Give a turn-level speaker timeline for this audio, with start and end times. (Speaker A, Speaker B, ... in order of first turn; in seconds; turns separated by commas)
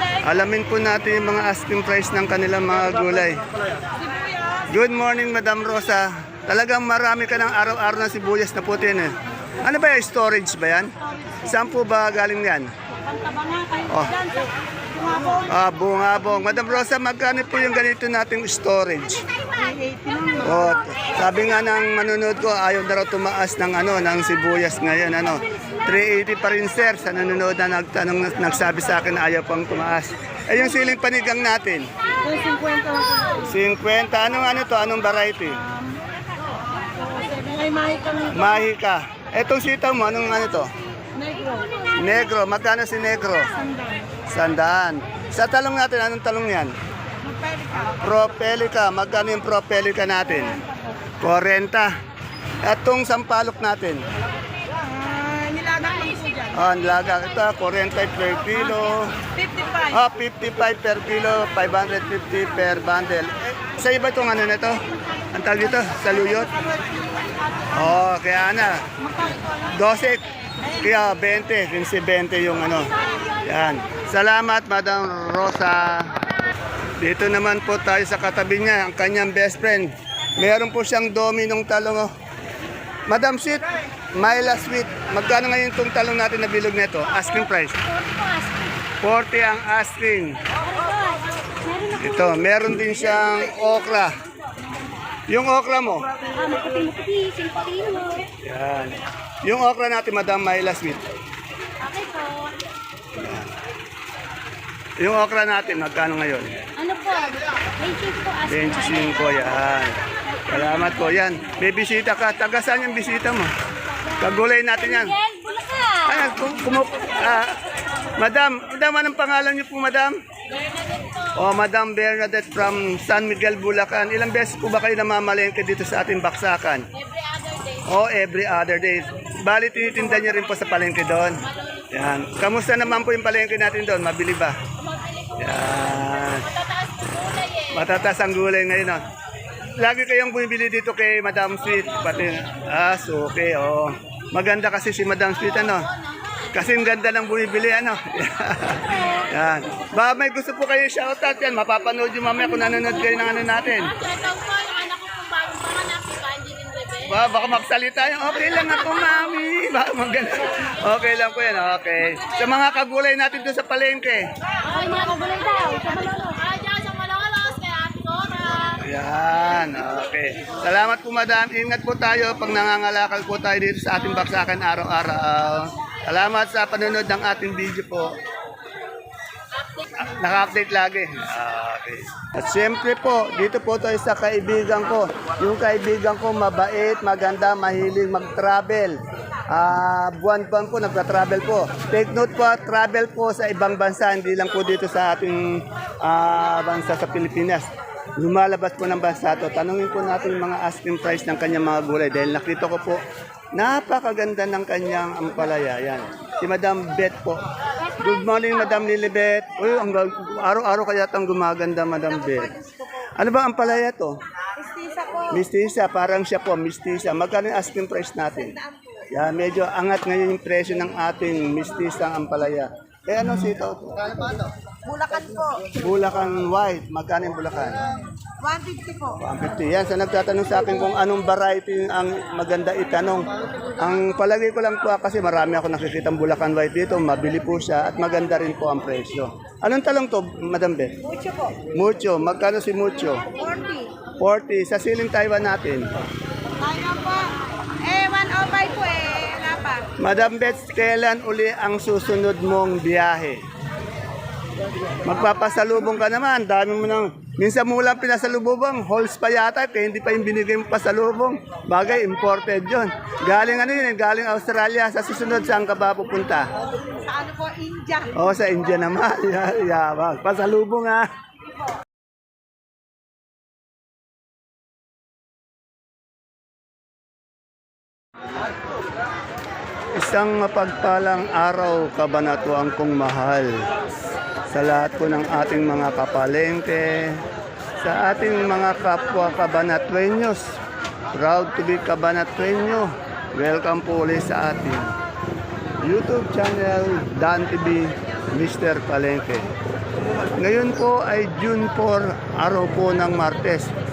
Speaker A: 0.2-3.4, Speaker A: 4.7-12.7, Speaker B: 13.2-13.8, Speaker A: 13.9-14.2, Speaker B: 14.9-15.4, Speaker A: 15.4-19.2, Speaker B: 19.5-20.8, Speaker A: 20.4-31.9, Speaker B: 32.2-33.4, Speaker A: 33.4-35.6, Speaker B: 36.9-38.3, Speaker A: 38.3-40.7, Speaker B: 41.1-41.7, Speaker A: 42.0-43.5, Speaker A: 44.3-46.7, Speaker B: 47.2-47.9, Speaker A: 48.0-50.6, Speaker A: 51.2-51.9, Speaker A: 52.6-54.0, Speaker B: 54.9-56.5, Speaker A: 56.5-59.1, Speaker B: 59.4-59.9, Speaker A: 59.9-64.8, Speaker A: 65.3-66.5, Speaker B: 66.6-67.3, Speaker A: 67.7-72.9, Speaker A: 73.4-76.1, Speaker A: 77.0-82.1, Speaker A: 83.1-87.8, Speaker C: 87.9-88.7, Speaker A: 89.0-90.4, Speaker C: 90.8-91.9, Speaker A: 91.9-94.2, Speaker A: 95.3-96.1, Speaker C: 96.4-98.2, Speaker A: 98.4-101.0, Speaker C: 101.8-102.6, Speaker A: 103.2-103.5, Speaker A: 105.0-106.6, Speaker C: 106.8-109.2, Speaker A: 108.5-113.5, Speaker A: 114.2-115.2, Speaker C: 115.2-116.0, Speaker A: 116.0-117.6, Speaker A: 118.2-120.1, Speaker C: 120.5-121.3, Speaker A: 121.3-126.8, Speaker C: 126.9-127.9, Speaker A: 127.9-131.4, Speaker C: 131.4-131.9, Speaker A: 131.9-134.6, Speaker C: 134.8-137.9, Speaker A: 135.4-136.5, Speaker A: 137.7-139.0, Speaker A: 139.8-145.8, Speaker C: 145.9-146.5, Speaker A: 146.5-153.9, Speaker C: 152.6-157.2, Speaker A: 157.1-164.3, Speaker C: 164.6-168.8, Speaker A: 168.8-178.1, Speaker A: 180.0-189.0, Speaker A: 189.5-203.0, Speaker A: 203.5-207.4, Speaker A: 208.0-212.5, Speaker A: 213.2-214.2, Speaker B: 214.6-215.4, Speaker A: 215.3-218.6, Speaker A: 219.1-224.2, Speaker B: 224.8-225.7, Speaker A: 225.8-227.8, Speaker B: 228.4-229.2, Speaker A: 229.2-240.9, Speaker B: 241.0-241.6, Speaker A: 241.7-243.2, Speaker B: 243.3-243.9, Speaker A: 244.2-245.9, Speaker B: 246.6-247.3, Speaker B: 247.8-249.8, Speaker A: 250.0-253.4, Speaker A: 255.0-266.5, Speaker B: 266.6-268.2, Speaker A: 268.1-271.1, Speaker A: 279.9-283.6, Speaker A: 284.5-287.2, Speaker A: 287.8-290.4, Speaker A: 291.1-294.9, Speaker A: 295.8-299.5, Speaker A: 300.4-303.7